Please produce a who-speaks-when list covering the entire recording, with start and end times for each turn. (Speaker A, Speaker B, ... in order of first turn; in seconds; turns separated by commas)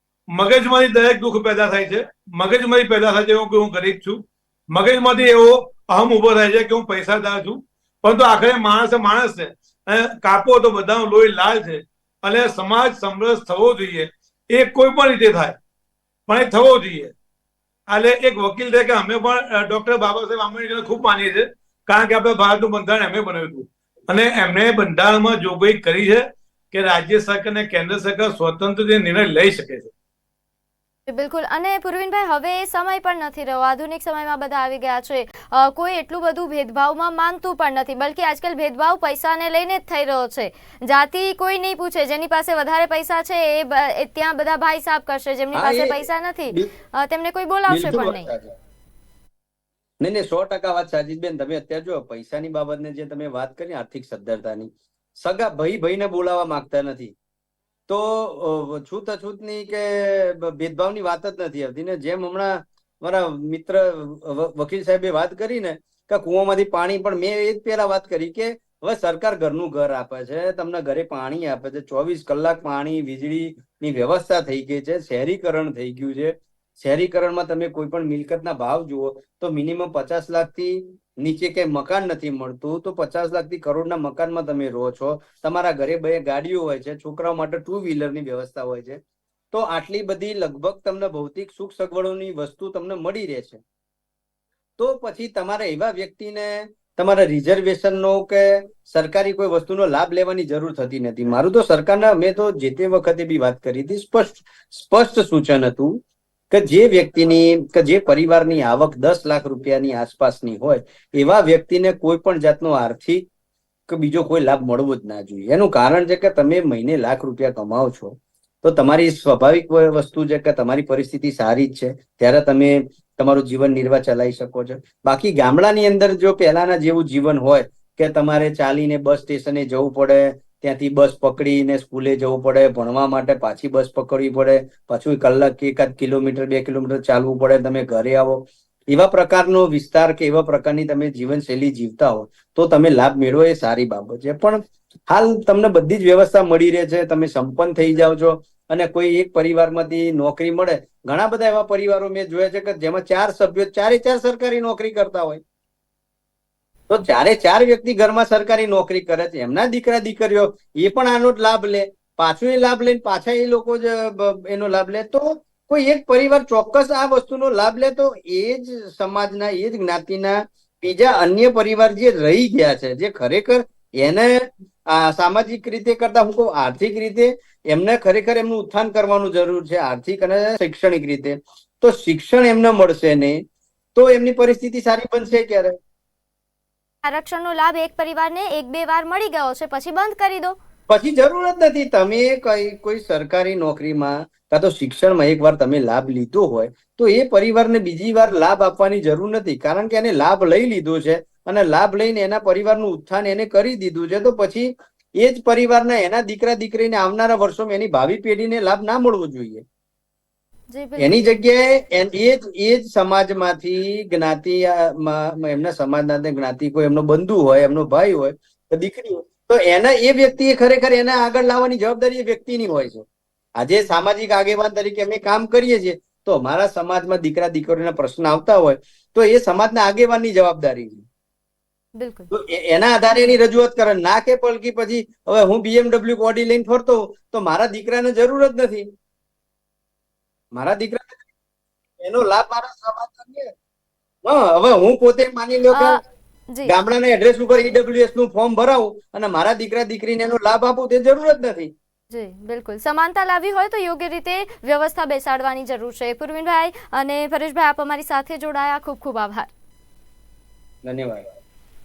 Speaker A: 0.3-15.6, Speaker A: 16.3-17.1, Speaker A: 17.9-29.9, Speaker B: 31.1-48.3, Speaker C: 45.5-46.7, Speaker C: 47.7-48.5, Speaker C: 50.0-57.1, Speaker C: 57.9-89.0, Speaker C: 89.5-93.6, Speaker C: 94.8-106.0, Speaker C: 106.5-113.3, Speaker C: 113.9-155.4, Speaker C: 156.9-183.4, Speaker C: 183.9-185.8, Speaker B: 187.0-190.6, Speaker C: 190.9-209.6, Speaker B: 210.7-211.3, Speaker C: 211.0-223.1, Speaker C: 223.6-231.1, Speaker B: 231.9-232.3, Speaker C: 232.3-238.9, Speaker C: 240.5-241.2, Speaker C: 242.0-243.5, Speaker C: 244.2-246.0, Speaker B: 245.7-246.0, Speaker C: 246.7-251.7, Speaker B: 252.1-259.5, Speaker C: 260.8-261.3